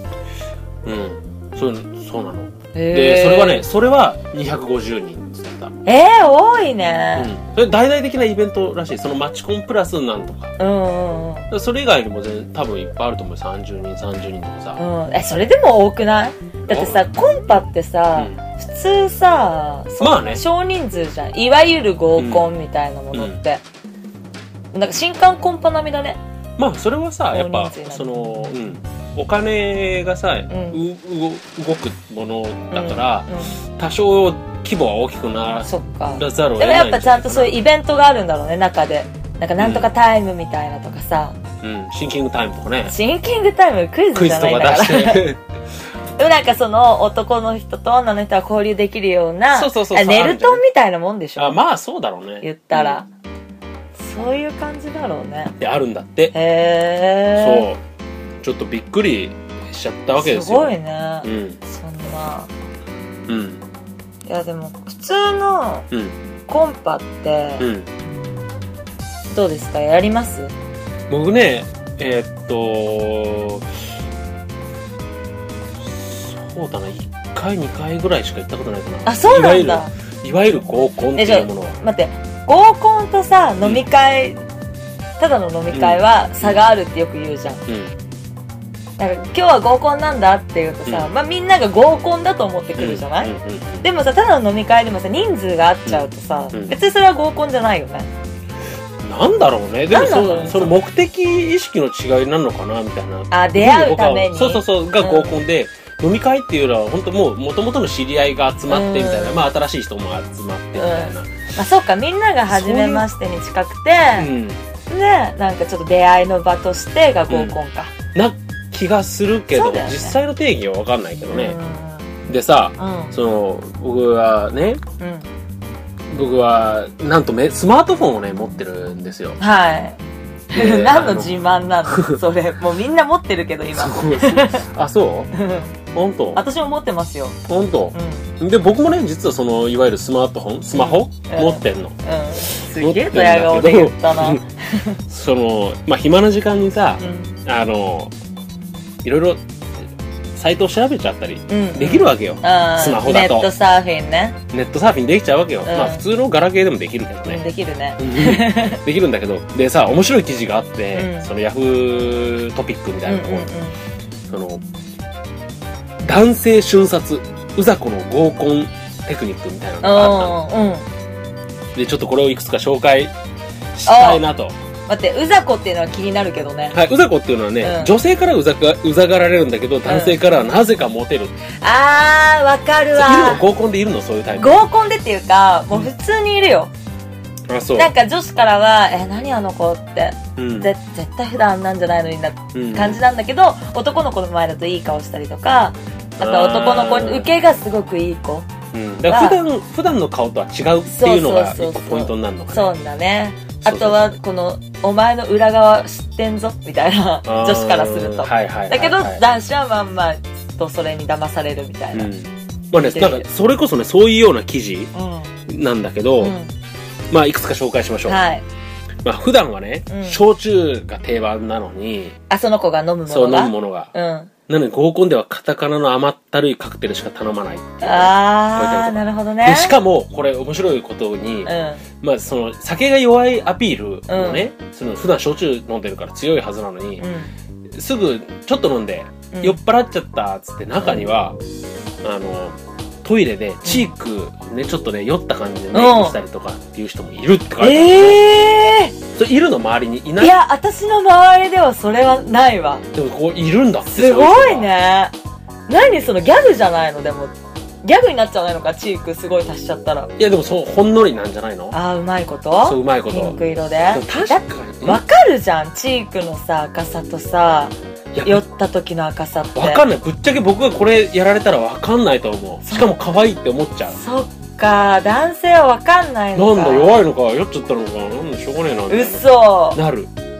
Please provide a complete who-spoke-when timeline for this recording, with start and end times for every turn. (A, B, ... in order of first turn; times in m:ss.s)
0:00.8-0:05.8 A
0:02.7-0:03.6 B
0:05.8-0:07.3 B
0:07.2-0:10.6 A
0:10.6-0:11.5 B
0:11.5-0:14.8 A
0:14.8-0:23.6 B
0:16.7-0:17.6 A
0:18.2-0:18.4 A
0:20.0-0:20.4 A
0:22.2-0:22.5 A
0:23.1-0:23.4 A
0:24.7-0:26.2 B
0:26.6-0:37.6 A
0:27.3-0:28.1 B
0:30.5-0:30.8 B
0:32.7-0:33.6 B
0:35.6-0:41.4 B
0:39.6-0:39.9 A
0:41.6-0:43.0 A
0:42.9-0:45.3 B
0:44.1-0:45.4 A
0:46.2-0:51.6 B
0:49.5-0:50.6 A
0:51.4-0:53.0 A
0:52.4-0:53.1 B
0:54.0-0:55.6 B
0:55.6-0:56.4 A
0:56.3-0:57.7 B
0:57.4-0:57.8 A
0:58.4-1:01.6 A
1:00.2-1:02.5 B
1:03.3-1:03.6 A
1:04.3-1:05.9 B
1:05.9-1:06.2 A
1:06.5-1:07.7 B
1:07.6-1:07.9 A
1:09.3-1:10.5 B
1:11.1-1:13.7 A
1:15.8-1:21.8 A
1:19.1-1:19.9 B
1:21.2-1:24.4 B
1:25.2-1:27.6 B
1:25.7-1:26.6 A
1:27.7-1:27.9 A
1:29.0-1:38.1 B
1:32.8-1:33.9 A
1:35.9-1:36.7 A
1:39.0-1:51.4 A
1:39.9-1:40.8 B
1:43.3-1:45.4 B
1:48.7-1:49.4 B
1:50.8-1:54.3 B
1:52.5-1:53.1 A
1:54.2-1:54.6 A
1:54.9-1:57.9 B
1:57.3-1:57.6 A
1:58.1-2:01.6 A
1:59.5-2:00.2 B
2:01.3-2:02.2 B
2:02.3-2:04.8 A
2:02.8-2:03.1 B
2:05.0-2:05.3 B
2:06.1-2:09.4 A
2:09.4-2:10.0 B
2:10.5-2:14.6 B
2:10.5-2:11.3 A
2:11.9-2:12.2 A
2:13.7-2:15.3 A
2:15.3-2:15.8 B
2:15.9-2:16.4 A
2:16.4-2:17.4 B
2:17.5-2:24.4 A
2:17.9-2:18.3 B
2:20.7-2:25.0 B
2:25.1-2:28.1 A
2:27.0-2:27.4 B
2:29.0-2:29.4 A
2:30.3-2:33.5 A
2:31.5-2:34.4 B
2:34.5-2:37.4 A
2:35.7-2:36.0 B
2:37.3-2:38.8 B
2:38.0-2:43.5 A
2:40.9-2:41.3 B
2:43.1-2:43.8 B
2:44.3-2:44.6 A
2:46.0-2:50.4 A
2:49.8-2:50.9 B
2:51.8-2:53.1 A
2:53.8-2:54.6 A
2:53.9-2:54.2 B
2:54.9-2:56.8 B
2:56.7-3:01.4 A
2:57.6-2:57.9 B
2:59.9-3:00.2 B
3:01.6-3:03.4 B
3:03.0-3:04.6 A
3:04.4-3:06.7 B
3:07.5-3:07.9 A
3:07.8-3:18.5 B
3:10.4-3:10.7 A
3:12.5-3:13.0 A
3:16.2-3:17.3 A
3:18.7-3:22.7 A
3:19.1-3:19.4 B
3:20.9-3:32.1 B
3:23.6-3:24.2 A
3:27.3-3:29.2 A
3:31.9-3:34.9 A
3:32.8-3:33.3 B
3:34.9-3:35.4 B
3:35.5-3:36.4 A
3:36.2-3:36.5 B
3:37.1-3:38.2 A
3:38.1-3:38.4 B
3:39.0-3:42.2 A
3:39.9-3:40.2 B
3:42.3-3:44.3 B
3:43.1-3:43.9 A
3:44.5-3:57.1 A
3:47.8-3:49.8 B
3:51.5-3:51.8 B
3:54.1-3:54.5 B
3:57.0-3:57.3 B
3:57.7-4:01.4 A
3:59.3-3:59.6 B
4:02.0-4:08.2 A
4:03.6-4:03.9 B
4:05.7-4:06.2 B
4:07.6-4:09.0 B
4:09.2-4:10.4 A
4:10.2-4:12.9 B
4:12.9-4:14.7 A
4:13.9-4:15.1 B
4:15.7-4:20.1 B
4:20.2-4:21.8 A
4:21.7-4:29.8 B
4:22.6-4:25.0 A
4:28.1-4:28.4 A
4:29.6-4:34.0 A
4:32.7-4:33.0 B
4:33.9-4:37.0 B
4:36.4-4:40.1 A
4:38.9-4:39.8 B